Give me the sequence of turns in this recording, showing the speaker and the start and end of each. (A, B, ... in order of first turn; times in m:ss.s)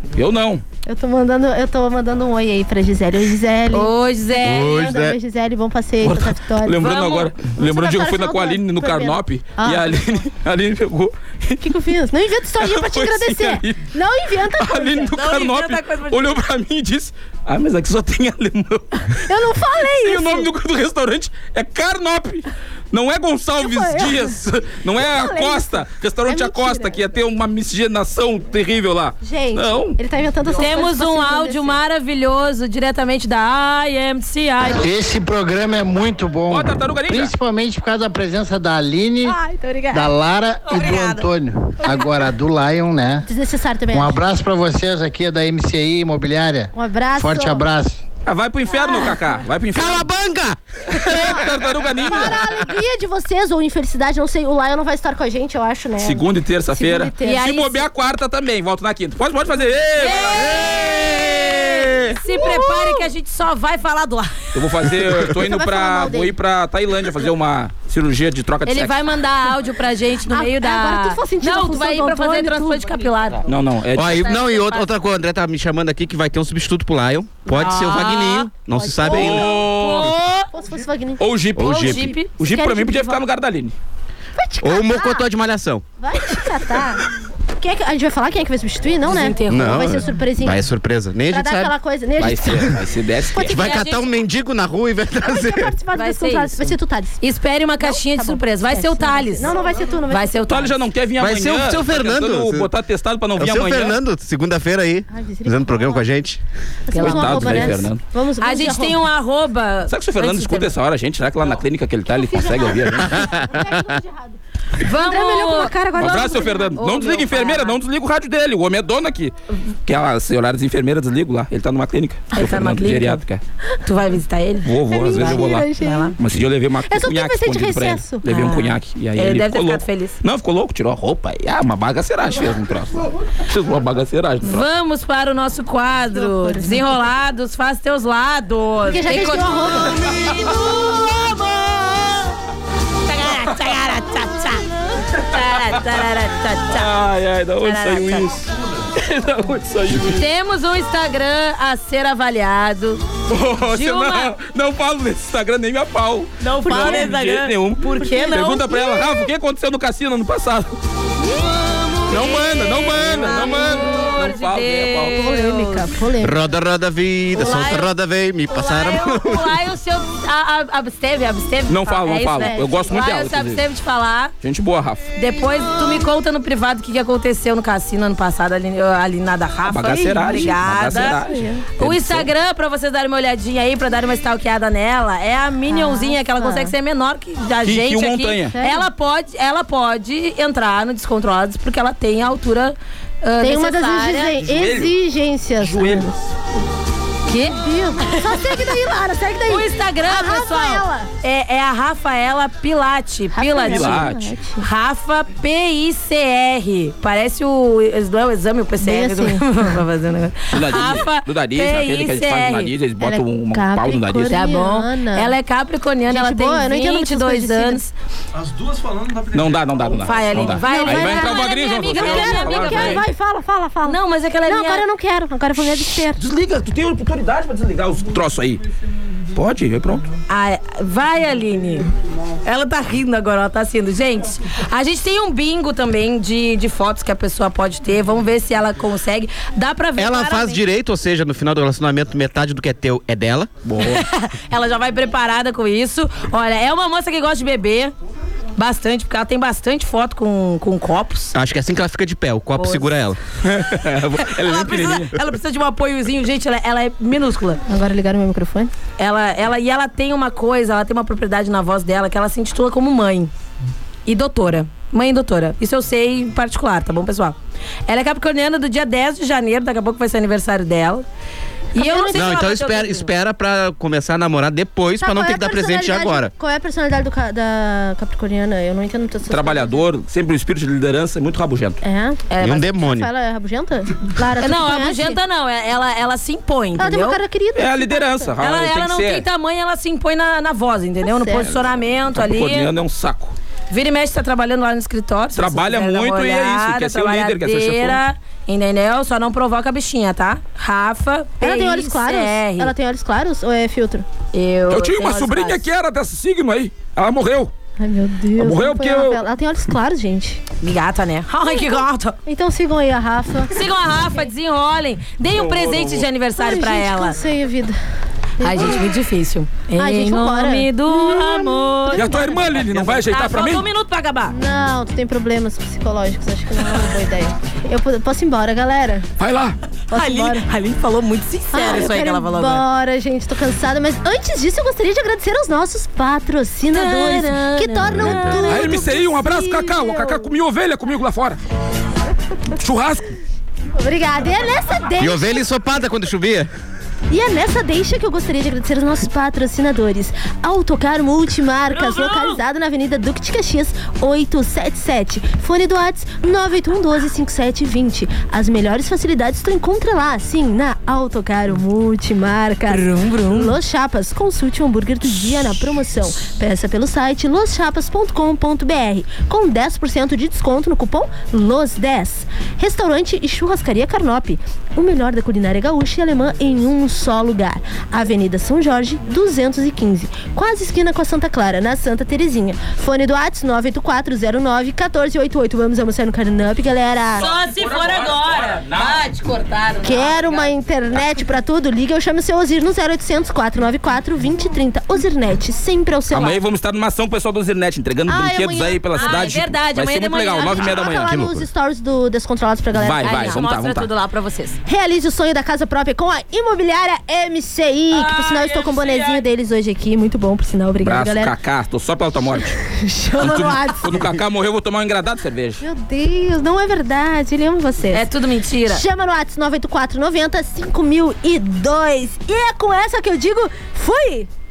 0:00.2-0:00.6 A
0:00.9-0:10.0 B
0:03.7-0:04.7 C
0:04.4-0:05.2 D
0:06.0-0:11.6 A
0:06.8-0:07.3 C
0:11.6-0:15.1 B
0:12.6-0:13.8 A
0:14.6-0:19.0 A
0:15.1-0:16.4 C
0:19.2-0:20.5 B
0:19.9-0:30.0 A
0:23.6-0:24.4 B
0:25.0-0:27.0 B
0:29.2-0:31.8 B
0:30.6-0:34.9 C
0:34.7-0:39.4 E
0:36.5-0:37.3 A
0:39.2-0:40.1 B
0:39.9-0:43.3 E
0:40.7-0:41.2 C
0:43.3-0:44.2 B
0:43.9-0:48.0 E
0:46.7-0:47.6 B
0:48.3-0:50.1 A
0:48.8-0:49.2 B
0:49.7-0:51.5 D
0:51.0-0:52.4 A
0:51.1-0:51.4 B
0:52.1-0:57.8 B
0:56.0-1:01.2 A
0:57.2-0:57.7 C
1:00.0-1:00.8 C
1:00.7-1:01.2 D
1:01.4-1:04.4 C
1:02.2-1:03.0 B
1:04.5-1:09.0 A
1:05.2-1:06.4 B
1:08.7-1:14.9 C
1:10.3-1:12.9 B
1:13.5-1:14.2 A
1:13.9-1:19.6 D
1:17.5-1:18.5 C
1:18.7-1:19.7 B
1:19.0-1:20.5 C
1:19.1-1:20.1 A
1:20.5-1:21.2 B
1:21.2-1:23.8 A
1:21.6-1:22.0 D
1:21.6-1:22.3 C
1:22.4-1:23.2 B
1:24.4-1:25.2 B
1:24.6-1:25.8 D
1:26.0-1:27.0 B
1:27.6-1:30.7 B
1:29.1-1:29.9 C
1:29.5-1:31.7 D
1:31.3-1:32.8 B
1:32.2-1:33.7 A
1:33.4-1:35.7 D
1:33.6-1:34.1 C
1:35.2-1:37.2 B
1:36.0-1:39.6 C
1:37.8-1:40.6 B
1:40.1-1:40.7 C
1:40.5-1:44.0 A
1:41.2-1:42.7 D
1:43.4-1:46.4 D
1:45.1-1:46.0 B
1:46.9-1:49.1 B
1:46.9-1:47.8 C
1:47.0-1:48.0 A
1:48.4-1:50.7 C
1:49.9-1:53.3 A
1:52.1-1:56.8 B
1:53.2-1:53.8 D
1:54.8-1:55.7 C
1:56.0-1:59.3 A
1:56.8-1:57.8 C
1:59.9-2:03.4 A
2:02.3-2:03.2 C
2:03.8-2:06.2 C
2:04.6-2:14.7 A
2:04.9-2:06.2 B
2:06.9-2:08.2 B
2:08.2-2:10.2 C
2:14.4-2:22.2 C
2:16.1-2:16.9 B
2:18.9-2:20.6 B
2:23.1-2:26.9 C
2:26.7-2:28.4 A
2:27.6-2:28.3 C
2:28.3-2:28.9 F
2:28.9-2:30.3 A
2:30.1-2:33.0 C
2:33.3-2:40.8 A
2:33.7-2:34.3 C
2:36.4-2:38.8 C
2:36.6-2:37.1 B
2:38.0-2:39.2 B
2:42.1-2:45.2 A
2:42.1-2:46.0 C
2:45.1-2:46.4 B
2:46.2-2:49.5 D
2:47.3-2:47.9 C
2:48.5-2:54.3 C
2:51.7-2:53.6 A
2:52.2-2:52.9 B
2:54.4-2:55.0 A
2:55.2-3:01.2 C
2:59.7-3:02.3 A
3:00.3-3:01.7 B
3:01.8-3:14.4 C
3:05.7-3:06.7 B
3:07.6-3:08.6 A
3:08.5-3:08.9 B
3:13.4-3:16.1 B
3:14.4-3:15.0 A
3:15.6-3:16.2 A
3:17.3-3:18.4 C
3:17.3-3:21.1 B
3:19.5-3:24.0 C
3:23.3-3:24.7 B
3:23.7-3:24.4 A
3:24.6-3:32.7 C
3:28.8-3:29.8 B
3:30.5-3:34.4 A
3:33.0-3:35.4 B
3:34.3-3:37.9 C
3:36.1-3:37.8 B
3:38.3-3:40.0 F
3:39.3-3:43.1 A
3:40.0-3:43.0 C
3:40.5-3:46.2 B
3:43.8-3:44.8 C
3:46.0-3:48.6 A
3:49.3-3:50.0 A
3:50.3-3:51.9 C
3:52.4-4:00.6 C
4:00.0-4:03.5 D
4:03.6-4:04.0 A
4:03.8-4:07.9 C
4:08.6-4:11.3 C
4:11.3-4:13.2 D
4:12.6-4:12.9 C
4:13.4-4:15.1 A
4:14.2-4:17.6 C
4:17.7-4:18.7 B
4:19.0-4:23.3 C
4:24.1-4:27.4 C
4:27.9-4:31.0 C
4:31.8-4:33.1 C
4:31.8-4:32.4 B
4:32.1-4:36.3 D
4:35.0-4:39.8 B
4:39.3-4:41.8 A
4:41.8-4:45.2 B
4:42.3-4:42.6 C
4:42.4-4:43.1 D
4:44.4-4:47.2 C
4:46.8-4:48.3 B
4:47.6-4:49.2 A
4:48.4-4:52.7 C
4:51.0-4:51.5 B
4:52.1-4:53.4 A
4:53.7-5:02.7 C
4:55.4-4:58.0 A
5:01.4-5:04.1 B
5:04.3-5:05.6 C
5:04.7-5:07.5 A
5:07.8-5:10.4 B
5:08.4-5:09.2 A
5:10.6-5:12.2 C
5:11.5-5:14.3 B
5:13.5-5:17.2 C
5:15.5-5:15.8 A
5:16.4-5:17.8 B
5:18.4-5:19.0 B
5:18.4-5:24.3 C
5:19.8-5:22.6 B
5:21.9-5:23.6 A
5:24.3-5:29.1 B
5:29.2-5:29.6 A
5:29.9-5:30.4 B
5:29.9-5:32.6 C
5:31.5-5:40.3 B
5:36.7-5:38.8 C
5:38.0-5:38.4 D
5:38.1-5:41.4 A
5:42.5-5:43.2 A
5:43.8-5:45.4 B
5:45.0-5:46.5 D
5:47.1-6:27.3 B
5:51.7-5:52.4 C
6:02.7-6:03.5 C
6:27.2-6:30.5 C
6:27.2-6:29.0 A
6:29.8-6:36.4 B
6:36.1-6:41.1 A
6:38.1-6:39.4 B
6:38.9-6:40.7 C
6:40.4-6:43.4 B
6:40.9-6:41.5 D
6:42.7-6:43.9 A
6:43.0-6:44.6 C
6:44.7-6:51.4 B
6:47.9-6:49.2 C
6:50.8-6:52.6 A
6:52.7-6:53.9 B
6:53.2-6:55.6 A
6:55.6-6:58.1 B
6:57.9-6:58.8 C
6:58.7-7:04.3 B